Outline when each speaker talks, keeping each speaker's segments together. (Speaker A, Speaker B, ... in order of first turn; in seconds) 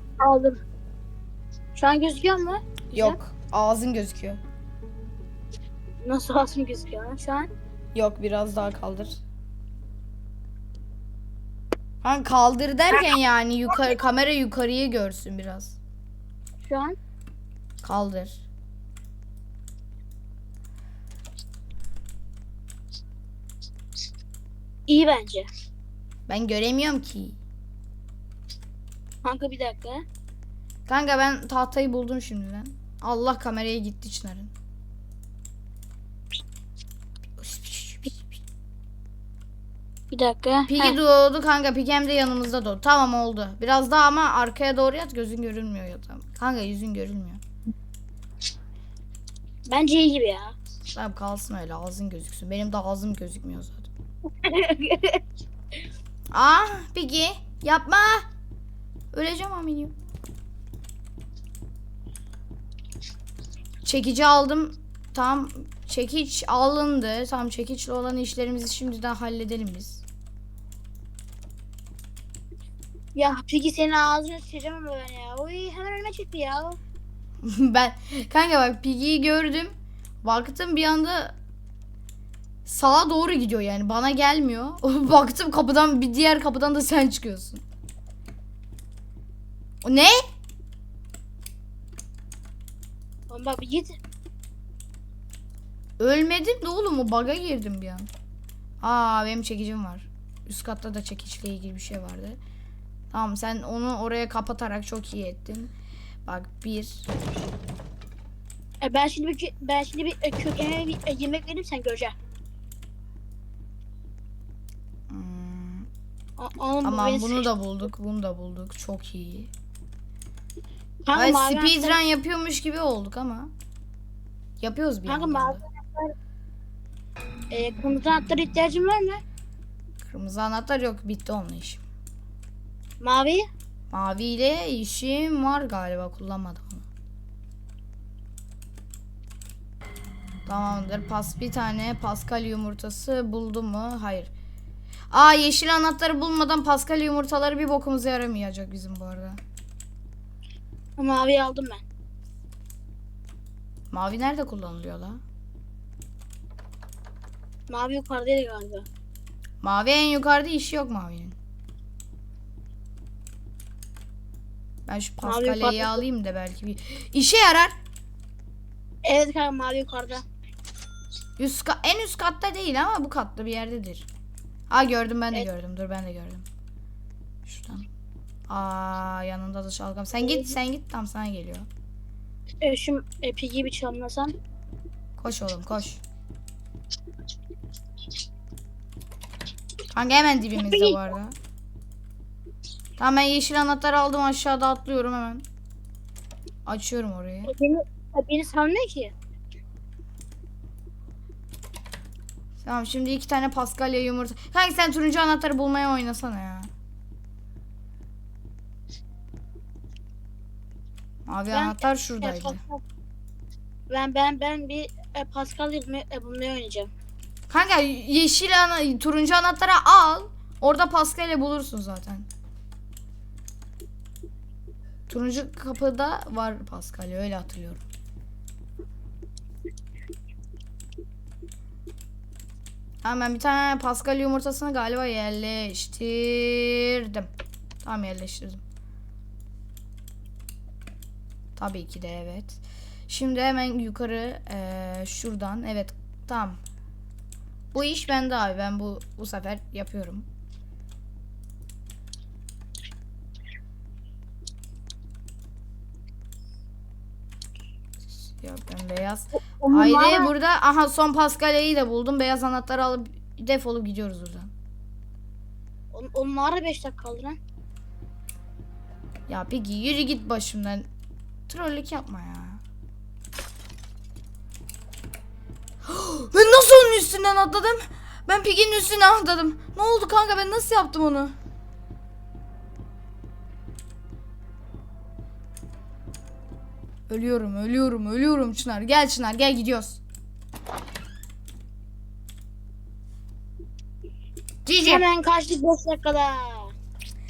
Speaker A: 0.2-0.6, 1.8-3.2, 6.0-7.5, 16.6-17.0, 24.9-25.5, 29.2-30.0, 40.1-41.0, 49.7-50.5, 54.4-55.2, 73.2-76.8, 93.3-94.0, 108.8-112.2, 116.4-117.5, 121.1-122.0, 125.1-126.2, 127.5-129.2, 133.0-133.4, 151.0-151.8, 157.7-158.9, 165.2-166.0, 169.0-170.2, 182.6-184.3, 190.6-191.1, 197.5-199.1, 211.5-212.8, 213.9-216.9, 259.6-260.3, 265.9-267.4, 294.8-296.7
Speaker B: 2.9-4.4, 8.0-9.2, 12.0-15.8, 17.8-18.4, 26.3-27.4, 30.9-34.5, 37.4-38.3, 40.7-47.4, 50.9-53.9, 56.3-58.2, 59.1-59.9, 63.8-70.0, 77.4-79.7, 80.2-81.4, 82.7-87.6, 89.8-90.2, 96.0-98.1, 98.8-102.4, 103.1-105.7, 106.3-107.1, 115.1-115.9, 116.8-119.5, 121.1-123.5, 124.6-125.6, 130.0-131.8, 133.9-136.8, 140.5-144.3, 145.1-149.4, 153.9-155.2, 159.6-161.4, 164.9-167.8, 171.4-174.1, 174.7-176.5, 177.4-177.9, 178.5-181.7, 185.2-186.0, 189.9-191.3, 193.0-195.4, 196.7-197.5, 202.6-206.7, 211.3-212.6, 217.5-222.3, 225.1-227.8, 233.0-237.3, 237.8-238.6, 241.6-246.6, 247.7-250.3, 258.1-264.5, 269.3-270.9, 271.5-272.6, 275.9-281.3, 287.1-290.0, 294.7-295.1